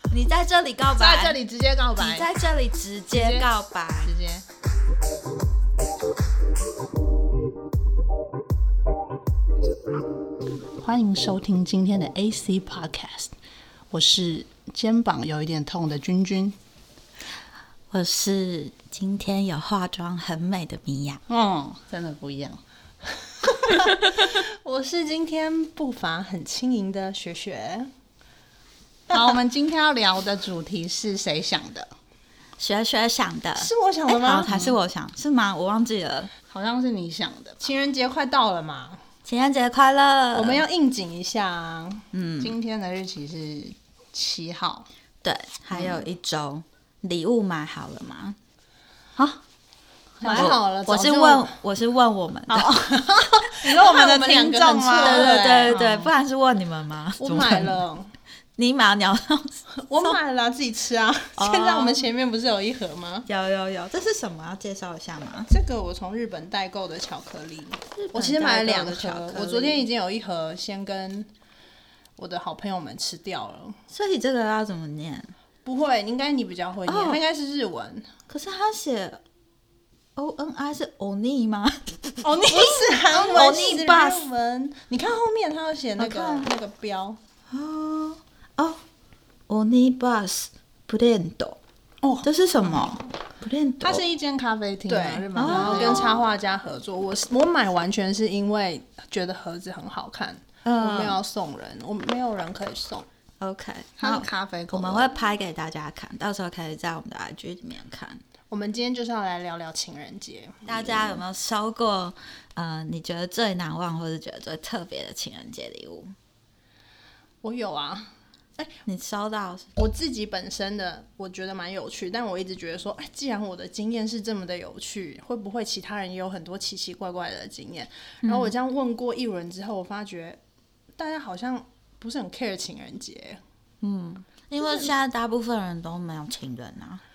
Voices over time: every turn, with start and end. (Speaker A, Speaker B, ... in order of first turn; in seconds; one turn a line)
Speaker A: 0.1-1.4
Speaker B: 1.0-2.3
Speaker A: 2.0-4.1
Speaker B: 3.1-3.5
Speaker B: 4.0-4.5
Speaker B: 10.8-13.3
Speaker B: 13.9-16.6
Speaker A: 17.9-21.2
Speaker B: 21.3-22.6
Speaker C: 23.6-27.9
Speaker B: 29.1-31.9
Speaker A: 32.6-36.3
Speaker C: 33.6-34.7
Speaker B: 36.5-37.6
Speaker C: 37.6-39.0
Speaker A: 39.2-40.6
Speaker C: 40.3-42.0
Speaker A: 42.1-42.6
Speaker B: 42.4-44.9
Speaker A: 45.2-48.4
Speaker B: 50.2-50.6
Speaker C: 50.2-51.5
Speaker A: 50.4-53.0
Speaker B: 52.5-56.1
Speaker C: 53.0-55.8
Speaker A: 55.0-57.8
Speaker C: 57.2-58.1
Speaker A: 58.6-60.2
Speaker C: 59.7-63.3
Speaker A: 61.4-62.0
Speaker A: 63.3-65.5
Speaker C: 65.5-71.3
Speaker A: 68.0-69.8
Speaker C: 72.2-73.8
Speaker A: 73.9-75.3
Speaker C: 75.7-78.1
Speaker A: 76.9-77.2
Speaker A: 78.3-79.2
Speaker A: 80.2-84.3
Speaker C: 82.2-87.2
Speaker A: 86.0-86.5
Speaker A: 87.5-88.8
Speaker A: 89.5-91.6
Speaker C: 92.0-92.3
Speaker A: 92.2-94.0
Speaker B: 93.8-96.1
Speaker C: 94.9-103.1
Speaker A: 95.3-96.2
Speaker A: 100.6-101.2
Speaker A: 103.4-108.2
Speaker B: 104.0-105.1
Speaker C: 108.5-111.2
Speaker A: 110.7-116.1
Speaker C: 117.4-118.7
Speaker A: 118.9-119.7
Speaker C: 119.8-130.4
Speaker A: 128.2-128.5
Speaker C: 131.0-133.4
Speaker A: 133.8-137.0
Speaker C: 134.6-134.9